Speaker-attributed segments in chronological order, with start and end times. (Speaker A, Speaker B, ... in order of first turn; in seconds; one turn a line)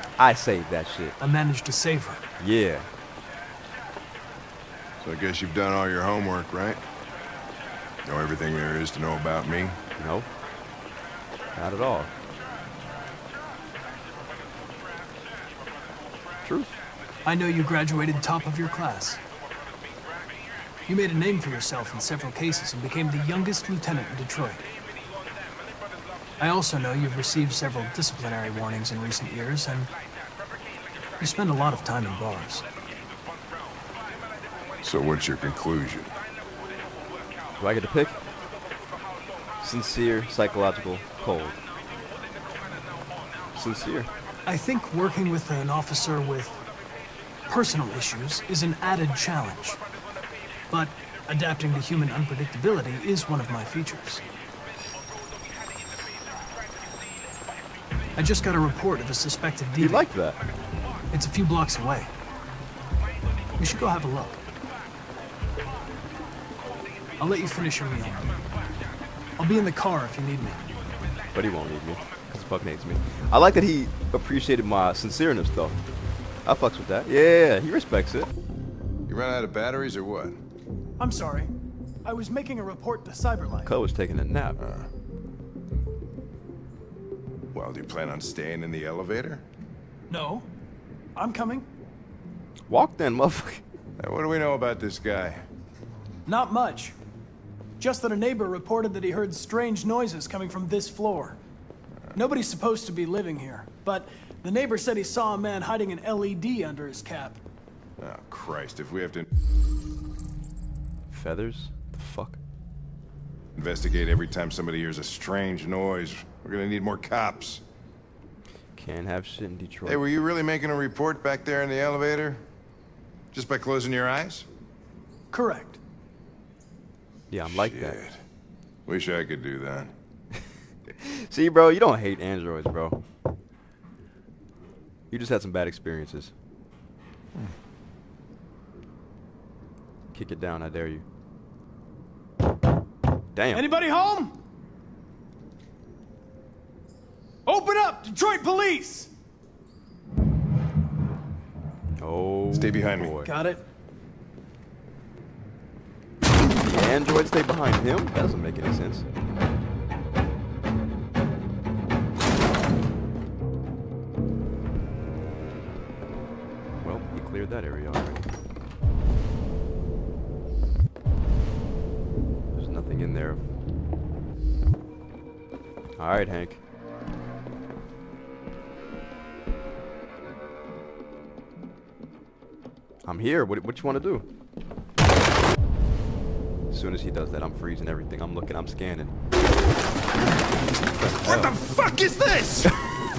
Speaker A: 0.2-1.1
Speaker B: 1.2-2.2
Speaker A: 2.4-2.9
Speaker C: 5.0-6.8
Speaker C: 8.0-9.8
Speaker A: 10.0-10.3
Speaker A: 11.5-12.1
Speaker A: 16.4-16.8
Speaker B: 17.2-19.2
Speaker B: 20.9-24.6
Speaker B: 26.4-29.9
Speaker B: 31.2-32.6
Speaker C: 34.8-36.1
Speaker A: 37.6-38.2
Speaker A: 39.6-41.6
Speaker A: 43.5-44.1
Speaker B: 44.5-46.6
Speaker B: 47.5-49.8
Speaker B: 50.7-54.2
Speaker B: 58.2-60.0
Speaker A: 59.8-60.4
Speaker B: 61.1-62.1
Speaker B: 63.6-64.4
Speaker B: 67.2-68.3
Speaker B: 69.4-70.6
Speaker A: 71.3-75.8
Speaker A: 76.4-78.3
Speaker C: 79.1-80.4
Speaker B: 81.0-81.5
Speaker B: 82.0-83.8
Speaker A: 83.6-84.6
Speaker C: 84.6-84.9
Speaker C: 87.5-89.4
Speaker B: 90.1-90.5
Speaker B: 91.2-91.7
Speaker A: 92.7-93.6
Speaker C: 94.0-95.4
Speaker B: 96.2-96.9
Speaker B: 97.8-101.4
Speaker B: 102.1-107.4
Speaker C: 108.0-109.3
Speaker A: 111.1-112.4
Speaker C: 113.6-117.6
Speaker A: 118.8-120.0
Speaker C: 119.8-122.4
Speaker C: 123.3-124.5
Speaker B: 125.3-125.8
Speaker A: 127.3-128.0
Speaker C: 127.5-128.2
Speaker C: 128.9-129.9
Speaker A: 130.3-133.0
Speaker A: 135.1-136.3
Speaker A: 140.1-141.0
Speaker A: 143.3-143.7
Speaker B: 143.5-144.4
Speaker B: 147.4-149.1
Speaker A: 152.0-153.3
Speaker C: 152.5-153.1
Speaker B: 153.2-153.6
Speaker A: 156.5-159.1
Speaker A: 166.8-168.2
Speaker A: 172.5-173.4
Speaker A: 176.0-176.6
Speaker A: 183.1-184.2
Speaker A: 186.7-189.1
Speaker A: 191.0-191.6
Speaker C: 191.0-192.7